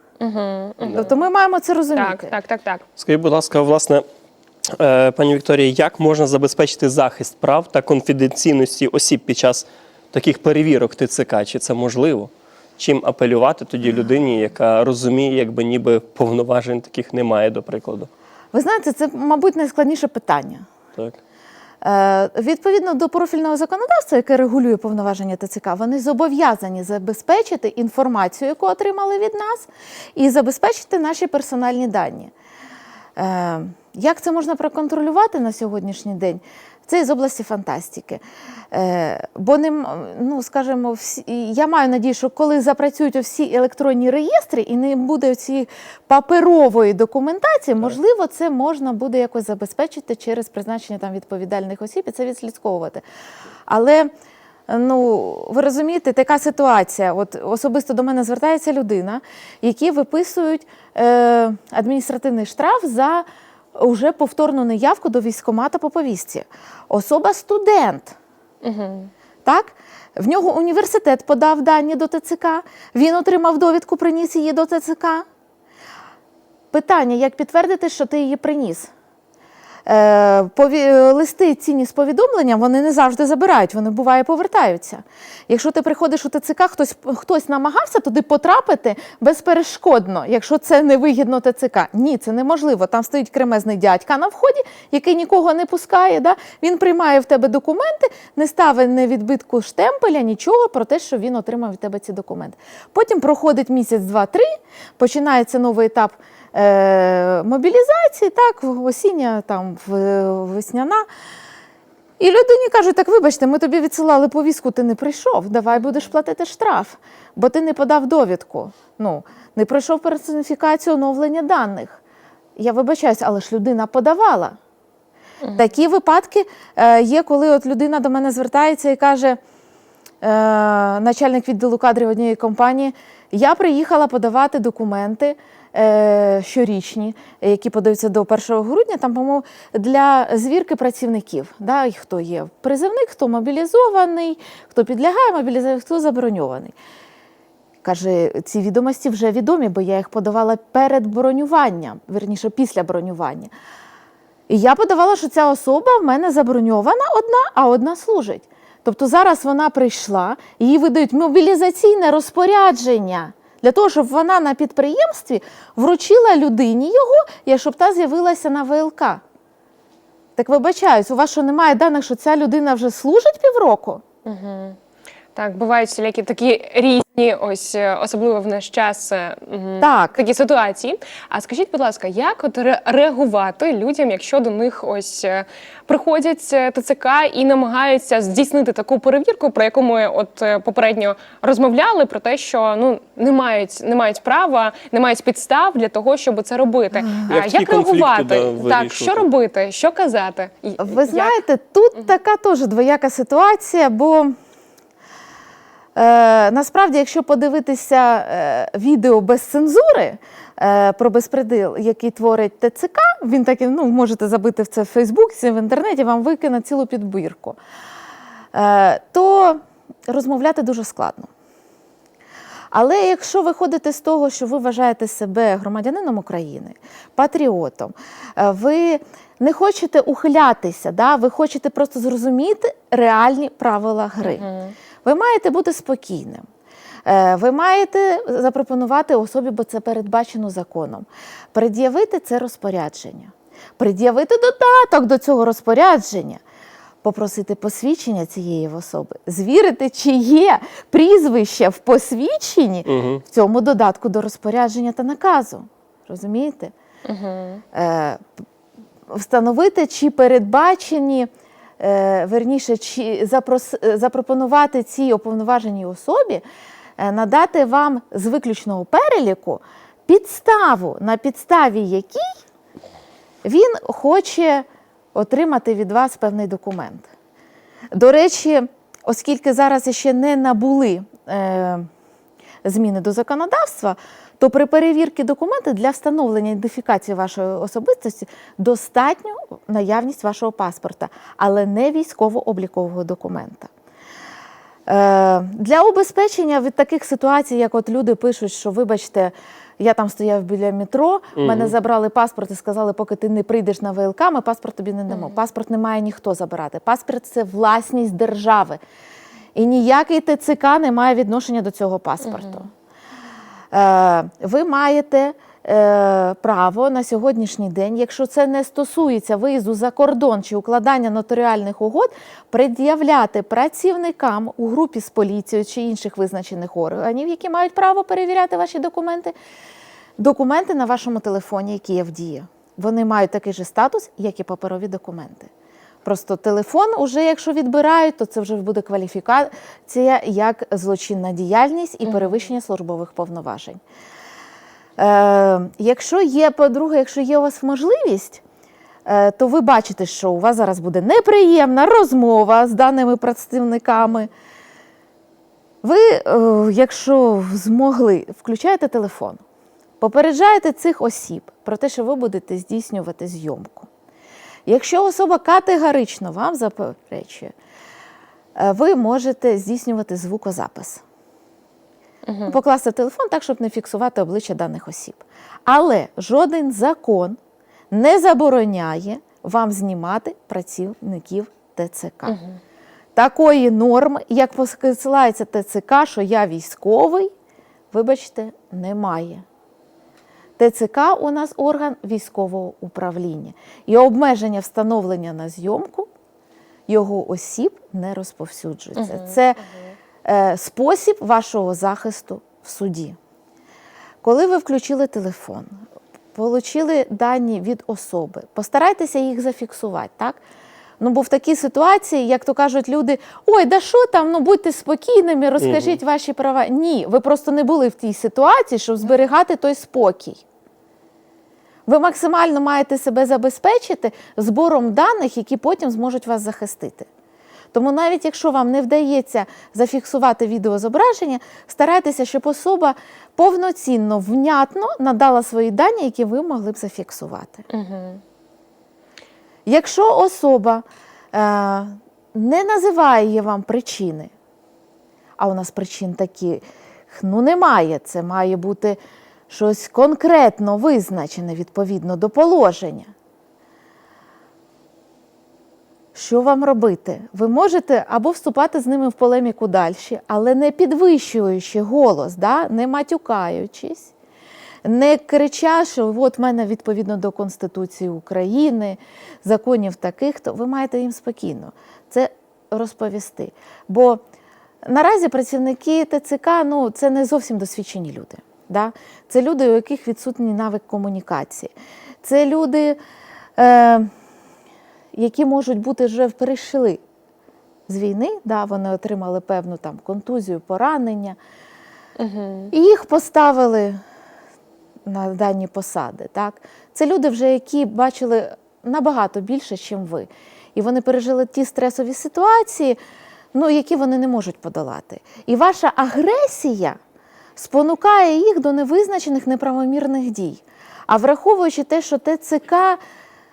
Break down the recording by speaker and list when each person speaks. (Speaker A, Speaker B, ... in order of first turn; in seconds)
Speaker A: 0.2-1.2, 1.9-2.8, 68.6-69.1, 174.2-174.8, 175.3-201.3, 234.2-234.7, 257.1-257.6, 312.2-312.6, 342.1-342.3, 372.3-372.6, 382.3-382.6, 398.9-399.3, 437.7-438.2, 492.2-492.7
Speaker B: 0.9-2.3, 18.5-20.7, 21.8-32.3, 33.2-53.0, 53.7-54.1, 54.7-68.2, 69.4-75.2, 76.7-78.9, 79.9-111.1, 112.2-122.0, 122.6-124.6, 125.5-129.4, 130.2-146.7, 147.8-153.5, 154.5-169.2, 170.4-174.0, 179.8-180.2, 200.8-204.3, 205.9-217.6, 218.5-221.3, 222.7-234.4, 235.0-236.4, 237.1-246.4, 247.0-256.7, 257.7-258.2, 259.1-266.4, 267.0-272.3, 273.4-277.1, 277.9-281.9, 282.6-293.7, 294.9-308.8, 309.6-312.7, 313.7-329.3, 330.2-335.5, 336.0-343.8, 345.0-348.4, 349.1-354.3, 355.8-359.4, 360.0-363.9, 364.7-367.5, 368.6-371.0, 372.4-377.4, 377.9-382.4, 383.1-387.3, 387.9-389.4, 390.6-396.1, 396.9-399.6, 400.2-403.2, 404.2-405.8, 406.3-410.4, 411.0-420.4, 421.9-427.1, 427.7-437.6, 439.7-444.3, 445.4-453.1, 456.1-464.1, 464.8-474.2, 474.8-481.7, 482.2-483.0, 483.6-484.1, 485.1-487.0, 487.9-491.4, 492.7-494.0, 495.1-503.0, 503.5-506.9, 507.6-513.0
Speaker C: 3.0-4.0, 4.7-18.1, 197.3-199.3, 252.8-253.2, 301.4-301.7, 415.6-416.0